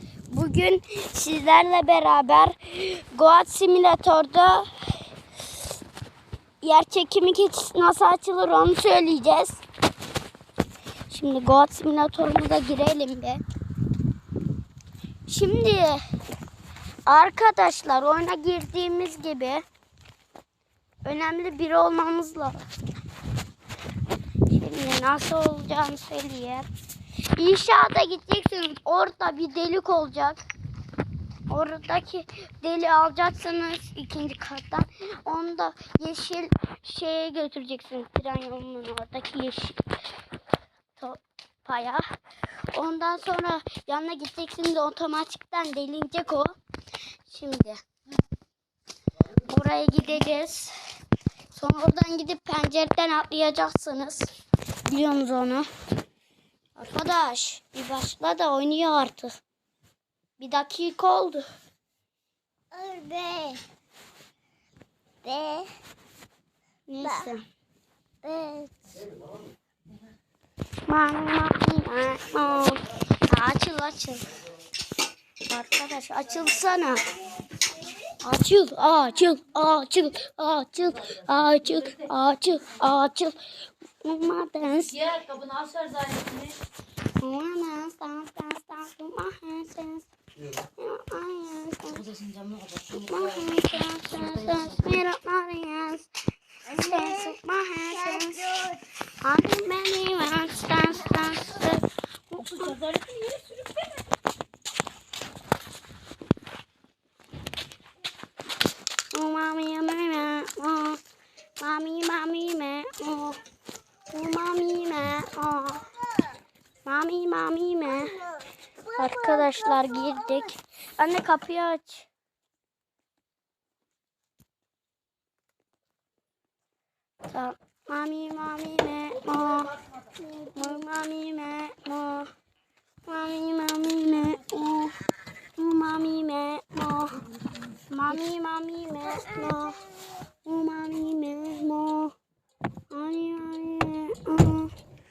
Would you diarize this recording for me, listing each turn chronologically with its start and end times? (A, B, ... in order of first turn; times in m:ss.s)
0:00.3-0:05.0 A
0:06.6-0:09.6 A
0:11.1-0:13.4 A
0:15.3-0:16.0 A
0:17.0-0:19.6 A
0:21.0-0:22.6 A
0:24.5-0:26.7 A
0:27.3-0:30.4 A
0:31.5-0:39.8 A
0:41.0-0:42.0 A
0:42.7-0:46.5 A
0:47.2-0:47.8 A
0:49.4-0:50.8 A
0:51.5-0:54.3 A
0:54.8-0:55.7 A
0:56.8-0:59.4 A
1:00.4-1:01.4 A
1:02.7-1:03.6 B
1:05.2-1:05.7 B
1:06.9-1:07.4 A
1:08.2-1:08.7 B
1:10.9-1:14.3 A
1:15.4-1:17.1 A
1:18.2-1:23.4 A
1:24.0-1:25.2 A
1:25.1-1:26.6 C
1:27.2-1:30.0 A
1:30.6-1:32.2 A
1:32.4-1:32.9 C
1:32.9-1:36.1 A
1:36.6-1:38.6 A
1:36.7-1:37.1 B
1:38.1-1:38.8 B
1:39.2-1:42.8 A
1:42.6-1:44.0 C
1:49.1-1:51.0 A
1:51.6-1:53.4 A
1:54.1-1:55.9 A
1:56.8-1:58.2 A
1:58.9-1:59.6 B
1:58.9-2:02.1 A
2:07.3-2:12.3 A
2:13.0-2:15.0 A
2:15.6-2:17.3 A
2:17.9-2:19.8 A
2:20.4-2:22.1 A
2:22.9-2:24.7 A